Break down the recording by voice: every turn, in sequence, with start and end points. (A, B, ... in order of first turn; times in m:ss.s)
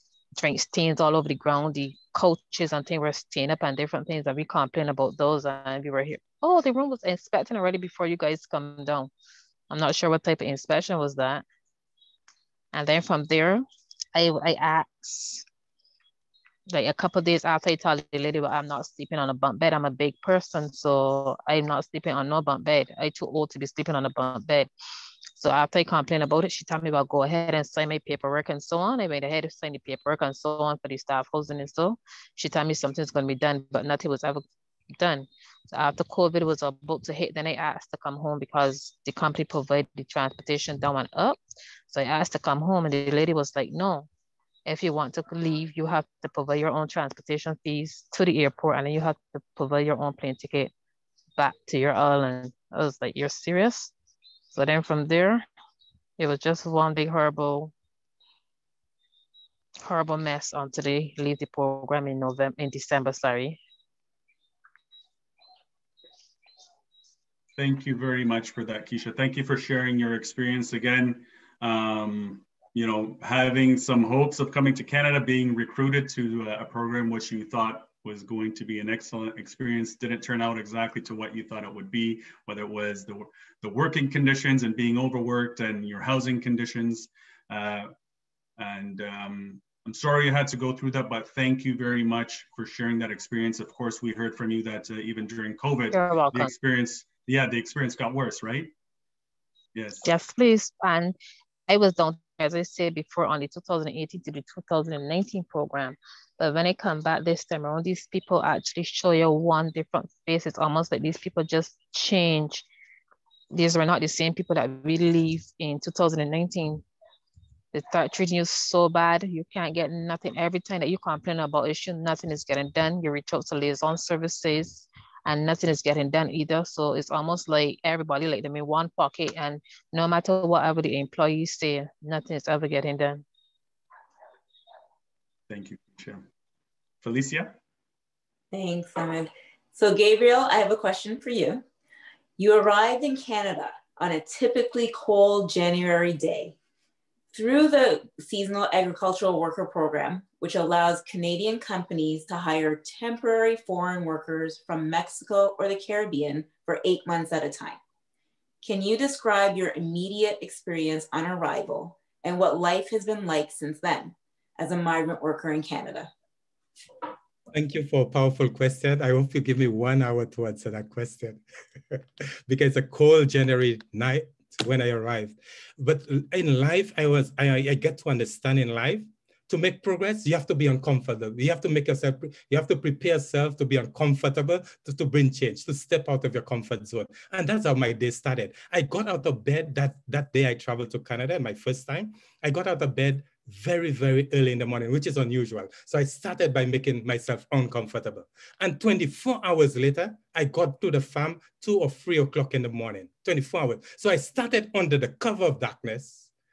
0:00.4-0:09.1 A
0:09.7-0:11.4 A
0:12.7-0:15.4 A
0:16.7-0:24.7 A
0:25.3-0:34.4 A
0:35.0-0:44.1 A
0:44.6-0:50.7 A
0:51.4-0:53.9 A
0:54.5-0:55.4 A
0:56.2-0:57.7 A
0:59.8-1:03.6 A
1:07.6-1:27.9 B
1:28.6-1:38.7 B
1:35.9-1:36.5 A
1:39.7-1:40.0 B
1:40.0-1:41.2 A
1:41.7-1:52.6 A
1:53.5-1:56.8 A
1:57.7-2:13.2 A
2:15.5-2:16.2 B
2:17.0-2:17.6 B
2:18.5-2:21.6 C
2:22.4-2:26.6 C
2:27.3-2:37.8 C
2:38.6-2:46.1 C
2:47.5-3:26.3 D